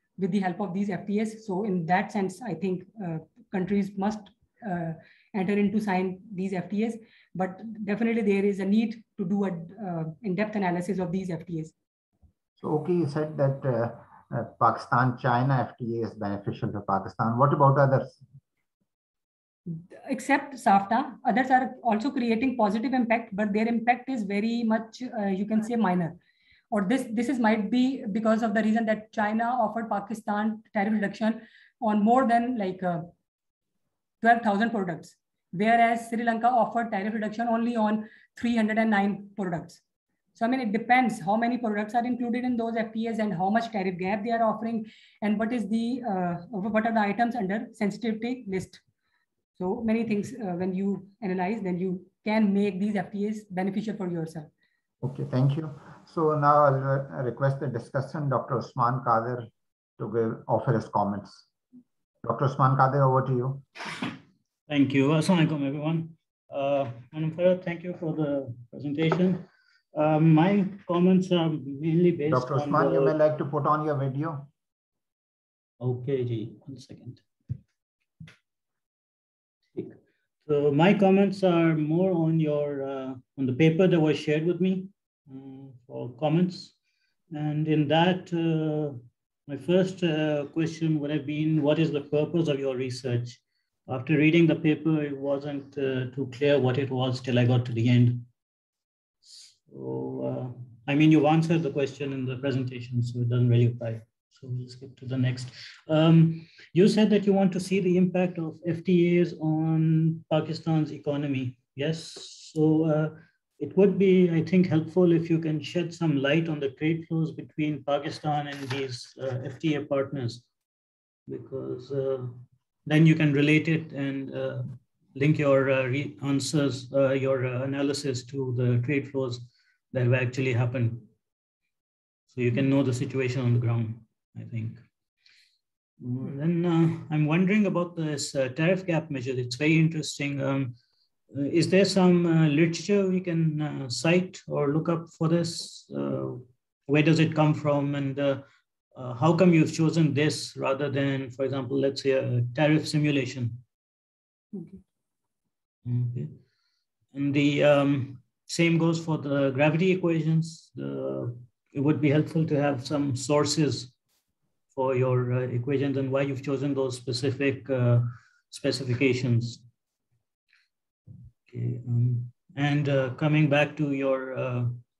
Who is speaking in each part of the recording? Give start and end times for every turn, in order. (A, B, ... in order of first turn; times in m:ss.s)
0:00.2-0:11.7 A
0:12.6-0:18.2 B
0:19.7-0:26.2 A
0:26.7-0:33.1 A
0:34.2-0:39.8 A
0:40.4-0:48.8 A
0:49.6-0:54.5 A
0:55.0-1:01.5 B
1:02.2-1:03.6 B
1:04.7-1:13.2 C
1:12.3-1:14.5 B
1:15.8-1:17.2 C
1:19.7-1:26.8 C
1:27.3-1:38.3 C
1:39.2-2:00.5 C
2:01.3-2:11.1 C
2:12.3-2:14.8 C
2:16.0-2:20.8 C
2:21.3-2:28.4 C
2:29.0-2:33.6 C
2:34.5-2:34.8 A
2:35.8-2:36.4 C
2:37.1-2:43.9 C
2:44.7-2:49.6 C
2:51.5-2:54.8 C